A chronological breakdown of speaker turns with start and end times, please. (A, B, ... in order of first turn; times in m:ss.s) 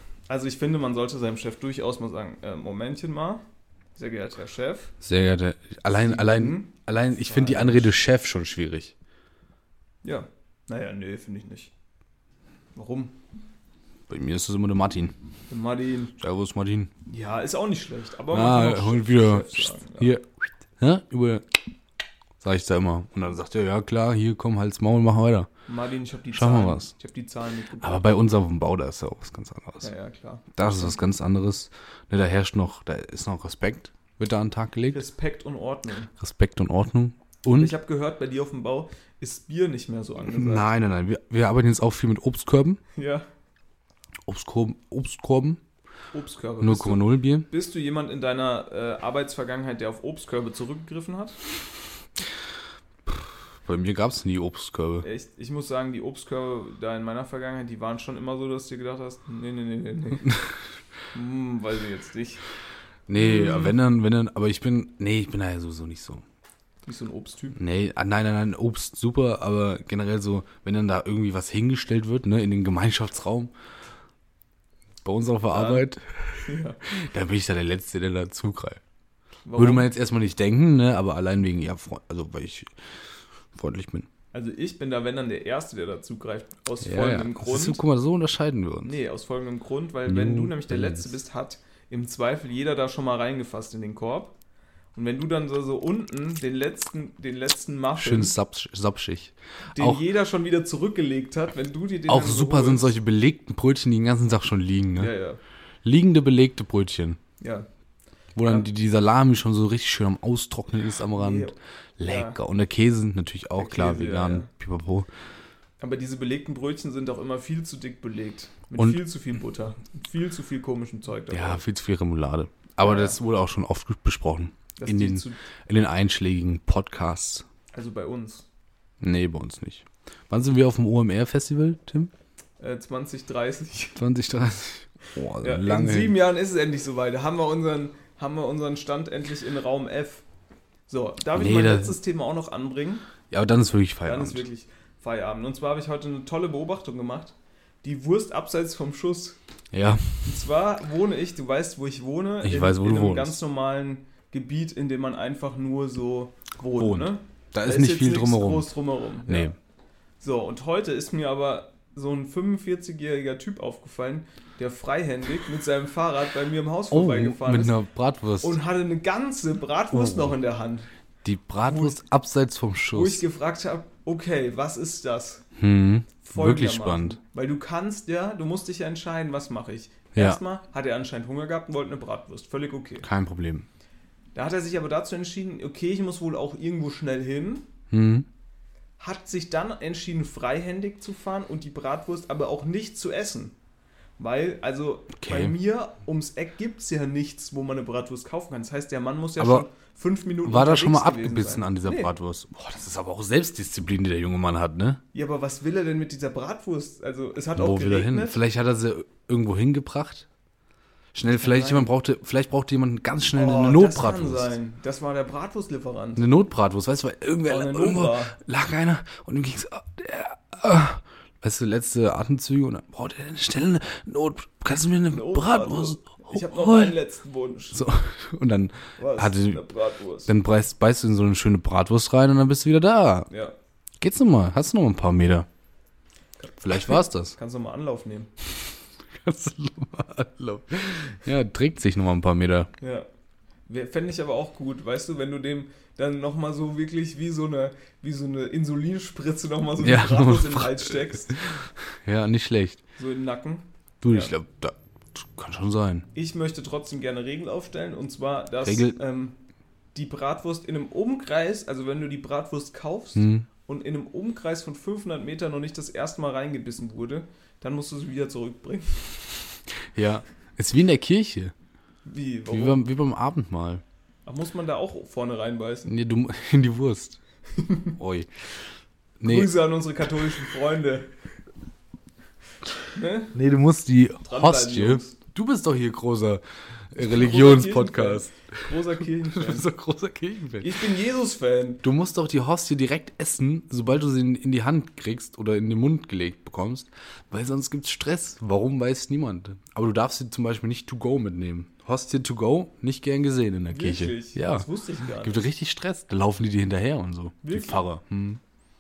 0:00.3-0:03.4 A
0:04.0-0:04.9 A
0:05.0-0:08.9 B
0:05.9-0:07.9 A
0:10.0-0:11.7 A
0:12.8-0:13.2 A
0:14.1-0:15.1 B
0:15.5-0:16.1 A
0:16.2-0:16.9 B
0:17.1-0:20.1 A
0:18.3-0:20.3 B
0:20.8-0:21.6 B
0:22.4-0:25.5 B
0:25.7-0:28.1 A
0:26.3-0:26.9 B
0:27.8-0:29.9 B
0:29.8-0:31.0 A
0:30.6-0:35.0 B
0:34.9-0:36.1 A
0:36.2-0:37.8 B
0:37.5-0:40.7 A
0:40.2-0:42.8 B
0:43.0-0:43.3 A
0:44.3-0:45.6 B
0:46.1-0:51.4 A
0:46.6-0:47.5 B
0:53.1-0:55.1 B
0:55.0-1:00.3 A
1:01.1-1:02.4 A
1:03.1-1:06.2 B
1:03.2-1:03.8 A
1:06.9-1:07.6 A
1:07.6-1:13.5 B
1:15.0-1:18.8 B
1:15.5-1:15.9 A
1:16.5-1:16.8 A
1:19.4-1:19.9 A
1:19.6-1:22.7 B
1:23.5-1:24.1 B
1:24.3-1:27.8 A
1:26.8-1:29.0 B
1:28.8-1:34.3 A
1:30.1-1:31.1 B
1:34.9-1:38.4 A
1:38.0-1:40.0 B
1:39.8-1:42.9 A
1:42.1-1:45.1 B
1:45.0-1:45.4 A
1:45.8-1:47.2 B
1:47.4-1:47.7 A
1:48.4-1:55.1 B
1:48.4-1:48.7 A
1:51.2-1:52.4 A
1:53.6-1:54.5 A
1:55.8-2:01.6 A
2:01.3-2:07.5 B
2:02.8-2:03.2 A
2:04.8-2:05.4 A
2:07.7-2:08.5 A
2:09.0-2:12.1 B
2:12.6-2:14.0 A
2:14.0-2:16.2 B
2:15.4-2:20.2 A
2:20.9-2:23.1 A
2:21.3-2:22.0 B
2:23.3-2:24.4 B
2:24.0-2:29.4 A
2:29.7-2:30.4 B
2:30.2-2:39.5 A
2:32.4-2:33.4 B
2:36.8-2:38.7 B
2:39.3-2:39.6 B
2:40.2-2:47.8 A
2:46.9-2:48.6 B
2:48.4-2:50.9 A
2:49.9-2:50.3 B
2:51.2-2:53.2 B
2:51.7-2:52.0 A
2:52.9-2:55.4 A
2:55.6-2:57.2 B
2:56.2-3:03.1 A
3:00.1-3:00.4 B
3:03.0-3:03.7 B
3:04.4-3:07.7 A
3:07.9-3:08.3 B
3:09.0-3:13.6 A
3:14.2-3:22.1 A
3:15.2-3:15.6 B
3:19.4-3:19.7 B
3:20.4-3:25.0 B
3:25.1-3:28.4 A
3:27.6-3:30.3 B
3:31.1-3:34.5 B
3:31.3-3:31.9 A
3:33.4-3:36.3 A
3:36.2-3:47.0 B
3:37.5-3:38.4 A
3:45.1-3:47.8 A
3:47.7-3:49.6 B
3:49.0-3:50.3 A
3:50.3-3:53.3 B
3:53.3-3:53.6 A
3:54.0-3:55.5 B
3:56.4-3:58.3 A
3:56.6-3:57.4 B
3:59.1-4:02.7 B
4:02.8-4:03.1 A
4:03.7-4:11.4 A
4:09.8-4:12.8 B
4:13.0-4:14.3 A
4:14.0-4:16.1 B
4:16.1-4:19.4 A
4:18.6-4:19.0 B
4:19.9-4:29.4 A
4:23.2-4:23.5 B
4:30.0-4:31.5 B
4:32.0-4:32.8 A
4:32.5-4:33.8 B
4:34.3-4:35.9 A
4:35.9-4:37.2 B
4:37.6-4:38.0 A
4:38.0-4:38.3 B
4:39.2-4:39.6 B
4:39.2-4:41.1 A
4:42.9-4:43.3 A
4:43.3-4:50.8 B
4:44.2-4:45.2 A
4:47.0-4:49.7 A
4:50.6-4:51.8 A
4:51.8-5:04.7 B
5:03.7-5:05.5 A
5:05.2-5:08.4 B
5:07.4-5:07.8 A